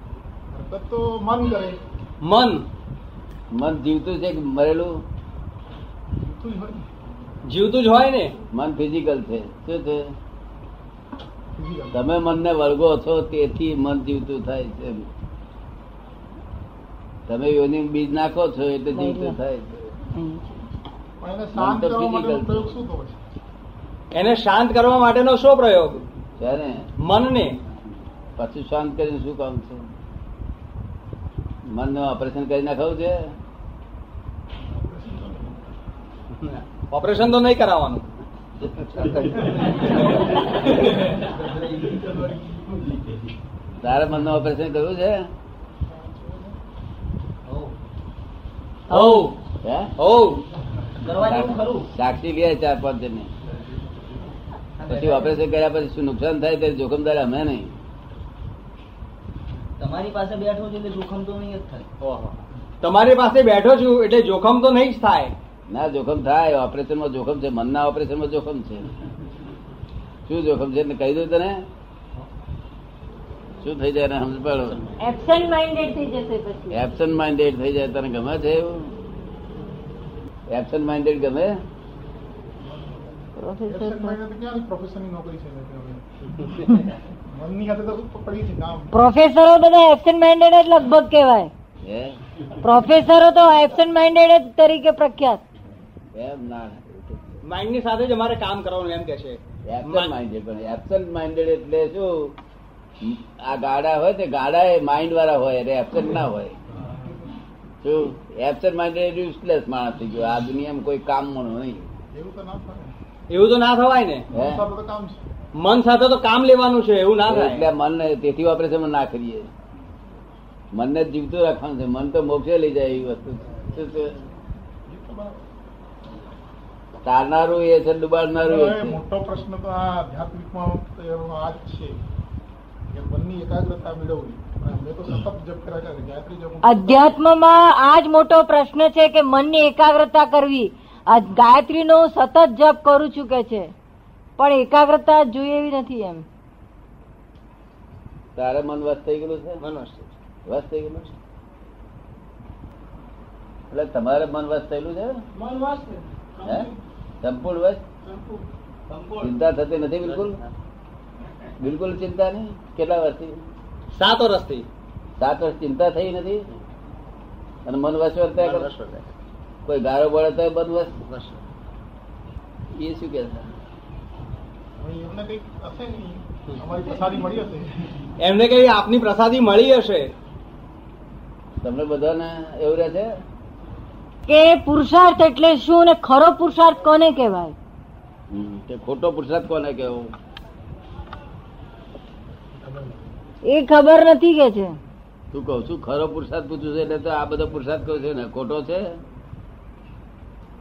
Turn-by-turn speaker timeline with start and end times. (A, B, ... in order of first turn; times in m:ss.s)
0:00.5-0:01.8 A
0:02.2-0:02.6 B
0:03.5-0:05.0 C
0:06.1-0:06.8 A
0:07.4-0:08.3 B
0:08.5-0:10.1 C
0:11.6-0:12.0 A
0:11.9-0:15.0 C
0:17.3-0:19.9 C
0:18.9-0:19.4 D
0:20.1-0:20.6 D
0:21.2-0:23.2 A
0:21.5-0:22.7 C
0:24.1-0:26.0 B
0:26.4-0:26.9 C
0:27.0-0:27.5 B
0:28.4-0:29.8 C
0:31.7-0:33.3 C
0:34.7-0:35.6 A
0:36.4-0:38.1 B
0:38.8-0:42.6 E
0:38.8-0:39.2 B
0:43.8-0:45.3 C
0:47.5-0:47.7 E
0:48.9-0:49.3 D
0:48.9-0:49.4 B
0:49.6-0:49.9 C
0:50.0-0:50.4 B
0:51.0-0:51.9 E
0:51.2-0:53.3 C
0:54.8-0:55.3 E
0:54.9-0:57.7 C
0:59.8-1:01.9 E
1:02.0-1:05.3 B
1:05.7-1:08.9 C
1:10.3-1:11.6 C
1:13.6-1:14.8 C
1:15.0-1:16.8 D
1:16.7-1:18.9 C
1:20.5-1:21.6 C
1:23.4-1:24.2 D
1:23.6-1:28.9 A
1:28.9-1:31.5 D
1:31.8-1:32.2 C
1:32.6-1:35.4 D
1:36.1-1:37.4 C
1:37.4-1:40.1 B
1:39.6-1:42.3 C
1:43.0-1:46.6 C
1:47.8-1:51.9 C
1:52.1-1:52.9 A
1:53.3-1:54.2 B
1:54.3-1:55.2 A
1:54.3-1:54.6 C
1:55.6-1:57.7 B
1:57.3-1:59.5 C
2:00.7-2:04.2 C
2:04.9-2:05.4 A
2:07.0-2:09.0 C
2:08.4-2:12.0 A
2:12.9-2:17.2 A
2:16.6-2:23.7 D
2:24.4-2:26.2 D
2:28.4-2:29.6 C
2:29.6-2:30.1 B
2:30.4-2:31.1 C
2:33.7-2:35.2 C
2:35.3-2:36.8 A
2:37.2-2:37.8 C
2:38.0-2:38.4 A
2:38.9-2:39.3 E
2:39.2-2:40.4 C
2:40.1-2:40.5 B
2:41.6-2:43.4 C
2:43.9-2:44.7 B
2:45.2-2:46.4 C
2:47.6-2:48.7 C
2:48.4-2:49.1 B
2:49.6-2:50.9 C
2:51.0-2:51.4 B
2:52.8-2:53.5 C
2:54.8-2:58.0 A
2:58.2-3:00.1 B
3:01.6-3:03.1 C
3:04.3-3:07.5 D
3:08.3-3:10.1 C
3:12.6-3:13.0 E
3:13.4-3:14.8 D
3:15.3-3:19.0 C